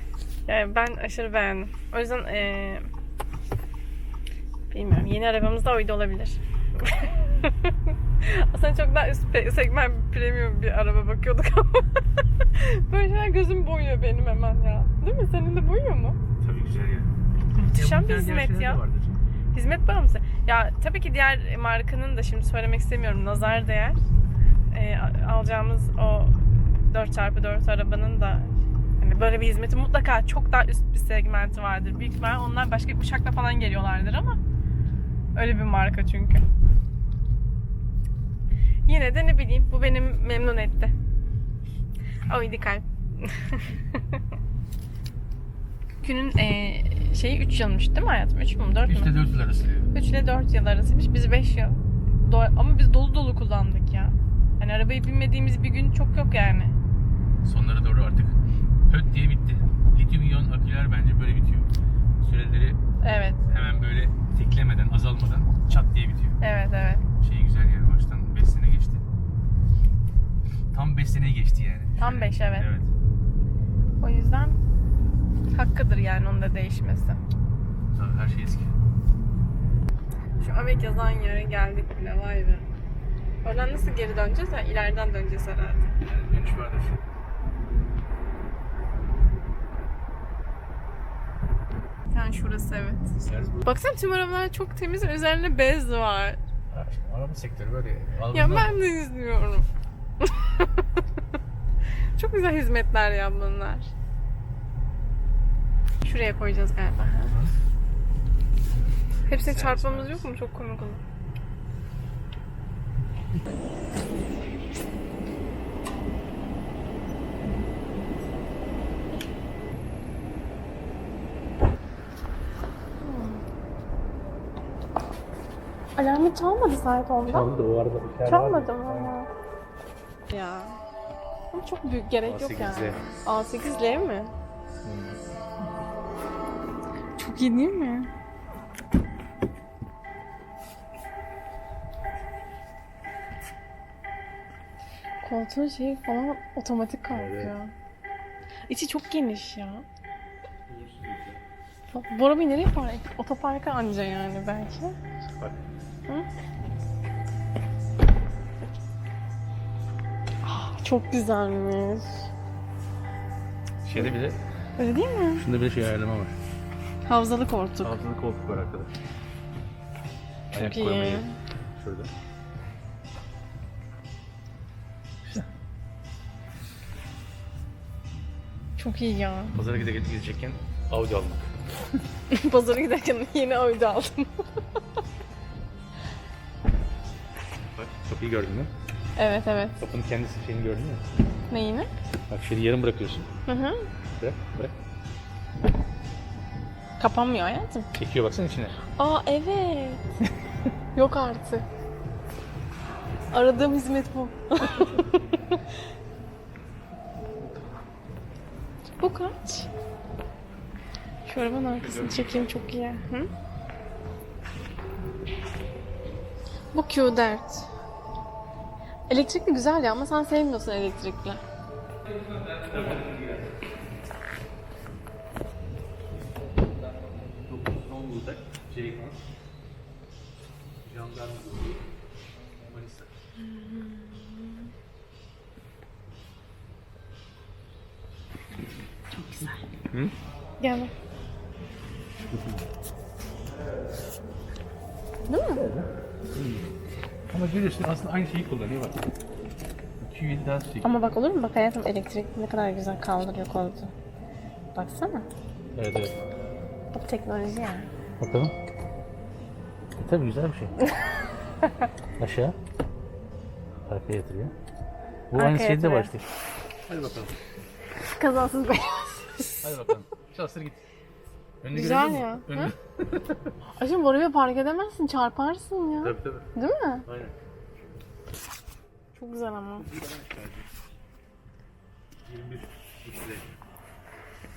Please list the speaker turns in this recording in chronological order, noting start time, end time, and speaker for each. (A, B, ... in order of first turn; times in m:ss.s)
0:00.5-0:02.9 A
0:04.7-0:11.8 A
0:12.5-0:16.2 A
0:16.4-0:17.1 B
0:17.5-0:18.8 A
0:17.7-0:19.2 B
0:19.5-0:24.0 A
0:24.7-0:34.4 A
0:35.3-0:36.4 A
0:38.8-0:40.9 A
0:42.3-0:44.2 A
0:46.0-0:49.1 A
0:48.9-0:49.9 B
0:49.9-0:56.7 A
0:57.4-0:58.3 B
0:58.9-1:02.8 B
1:03.0-1:03.4 A
1:03.5-1:06.4 B
1:06.4-1:07.0 A
1:07.2-1:09.0 B
1:10.7-1:12.9 B
1:12.0-1:12.7 A
1:14.0-1:14.6 A
1:15.5-1:17.2 A
1:17.9-1:18.7 B
1:20.4-1:22.6 A
1:23.4-1:26.0 A
1:26.0-1:27.0 B
1:32.1-1:36.4 A
1:33.2-1:33.6 B
1:36.7-1:38.7 B
1:38.3-1:39.6 A
1:40.2-1:40.7 A
1:42.2-1:43.9 A
1:46.0-1:47.4 A
1:49.3-1:50.3 B
1:49.3-1:51.0 A
2:03.0-2:03.4 A
2:06.0-2:07.5 A
2:07.2-2:09.1 B
2:08.2-2:09.3 A
2:10.3-2:10.8 A
2:11.5-2:14.3 A
2:12.2-2:13.0 B
2:14.8-2:15.2 B
2:17.2-2:18.1 A
2:25.2-2:27.7 A
2:27.1-2:27.5 B
2:28.7-2:29.8 A
2:30.7-2:31.4 B
2:31.9-2:35.0 A
2:35.4-2:35.7 B
2:40.4-2:42.3 A
2:43.8-2:44.4 B
2:44.8-2:45.4 A
2:45.4-2:46.3 B
2:47.0-2:47.9 A
2:47.8-2:48.9 B
2:50.5-2:52.1 B
2:50.6-2:51.4 A
2:58.8-2:59.5 A
2:59.5-3:01.5 B
3:02.3-3:04.4 A
3:07.7-3:08.7 B
3:09.2-3:09.8 A
3:09.8-3:11.0 B
3:11.5-3:11.9 A
3:12.3-3:13.3 B
3:13.5-3:13.9 A
3:14.1-3:14.7 B
3:17.0-3:17.9 A
3:17.9-3:18.8 B
3:19.0-3:20.0 A
3:20.9-3:21.6 A
3:23.3-3:25.6 A
3:29.0-3:29.7 A
3:31.2-3:33.3 A
3:36.7-3:37.7 A
3:39.1-3:41.4 A
3:42.3-3:43.5 B
3:47.4-3:49.2 B
3:50.8-3:51.8 B
3:52.6-3:53.1 B
3:53.4-3:54.7 A
3:59.1-3:59.6 A
4:00.6-4:00.9 A
4:02.3-4:02.6 B
4:05.3-4:05.6 A
4:05.6-4:06.6 B
4:07.3-4:09.0 B
4:10.0-4:10.9 B
4:10.8-4:13.9 A
4:14.7-4:15.3 A
4:15.7-4:16.1 B
4:16.9-4:17.9 A
4:18.2-4:18.5 B
4:20.0-4:20.7 B
4:20.8-4:21.7 A
4:22.2-4:22.6 B
4:23.9-4:24.5 B
4:25.3-4:26.2 B
4:25.3-4:26.1 A
4:26.9-4:27.3 B
4:28.0-4:29.6 A
4:29.6-4:30.8 B
4:31.6-4:33.5 B
4:31.7-4:32.7 A
4:33.8-4:37.0 A
4:36.0-4:36.4 B
4:37.0-4:37.3 B
4:39.1-4:39.9 A
4:39.8-4:40.7 B
4:42.3-4:43.5 B